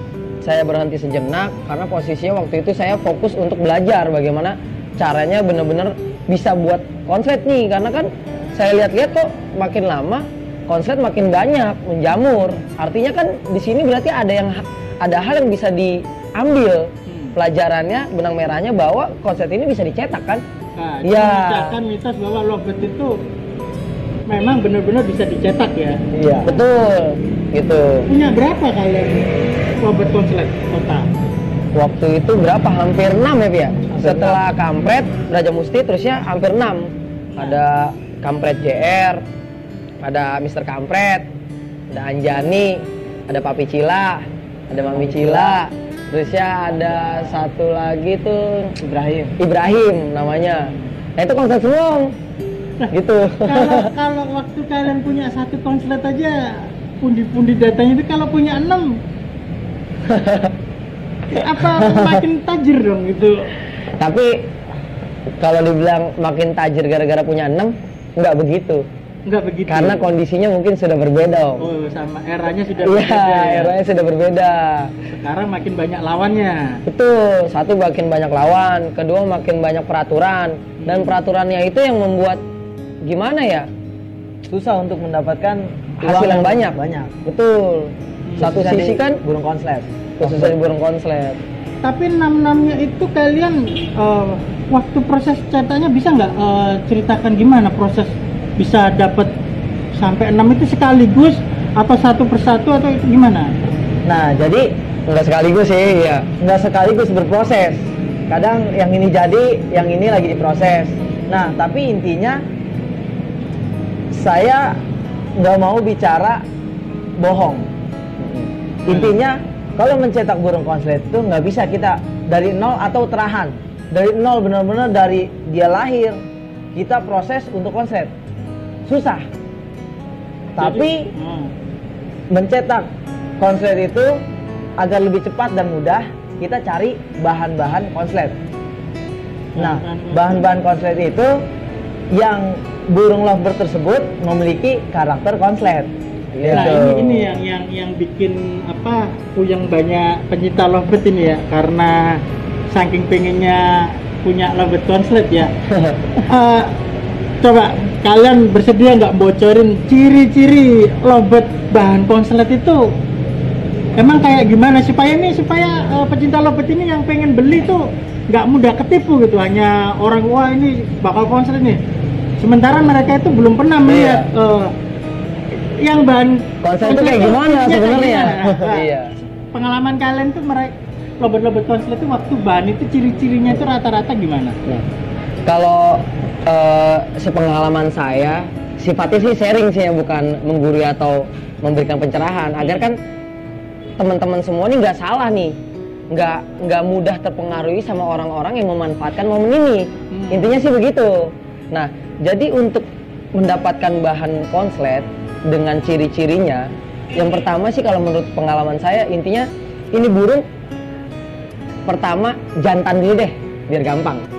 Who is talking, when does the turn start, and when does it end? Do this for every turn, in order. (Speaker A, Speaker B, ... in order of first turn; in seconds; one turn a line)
Speaker A: 0.4-20.4
Speaker B: 17.1-17.4
Speaker B: 20.8-23.2
Speaker A: 21.0-21.8
Speaker B: 24.3-26.6
Speaker C: 26.1-26.5
Speaker A: 26.4-28.1
Speaker B: 28.1-29.3
Speaker B: 29.8-31.1
Speaker A: 31.7-39.2
Speaker C: 33.9-34.4
Speaker B: 37.3-37.6
Speaker A: 40.0-41.3
Speaker A: 41.9-48.7
Speaker C: 44.7-45.6
Speaker C: 46.7-47.4
Speaker C: 48.8-49.4
Speaker A: 49.4-52.1
Speaker A: 52.9-53.9
Speaker B: 53.4-59.0
Speaker A: 60.1-60.4
Speaker B: 61.3-63.5
Speaker A: 64.0-64.4
Speaker A: 65.4-68.8
Speaker B: 69.2-70.1
Speaker A: 69.7-71.7
Speaker B: 71.6-73.8
Speaker A: 72.8-74.9
Speaker B: 75.1-76.8
Speaker A: 76.8-82.4
Speaker B: 80.8-81.2
Speaker A: 83.0-83.7
Speaker C: 84.5-87.1
Speaker A: 86.0-89.2
Speaker B: 88.3-88.5
Speaker C: 88.4-90.6
Speaker A: 90.2-91.4
Speaker B: 91.8-99.3
Speaker B: 100.0-103.5
Speaker C: 104.0-104.7
Speaker A: 105.1-106.3
Speaker C: 106.4-112.4
Speaker C: 114.1-114.8
Speaker C: 115.4-116.4
Speaker C: 117.2-117.7
Speaker A: 118.2-118.5
Speaker C: 118.8-126.2
Speaker B: 118.9-119.2
Speaker C: 126.7-128.1
Speaker C: 128.8-129.3
Speaker C: 130.5-131.1
Speaker B: 130.6-131.5
Speaker C: 132.3-132.9
Speaker C: 133.4-134.2
Speaker C: 134.8-138.3
Speaker B: 139.5-140.5
Speaker C: 139.6-141.4
Speaker C: 142.1-147.0
Speaker A: 146.3-147.3
Speaker B: 146.5-155.5
Speaker A: 155.7-156.1
Speaker B: 156.3-156.8
Speaker B: 157.4-162.9
Speaker B: 163.9-171.8
Speaker B: 172.4-174.7
Speaker A: 173.8-174.3
Speaker B: 175.5-178.9
Speaker A: 176.6-179.1
Speaker C: 178.4-178.7
Speaker B: 179.5-184.6
Speaker A: 185.4-193.0
Speaker B: 192.6-192.9
Speaker A: 194.0-195.5
Speaker A: 196.1-206.6
Speaker B: 200.1-200.6
Speaker A: 207.1-210.4
Speaker A: 211.8-214.2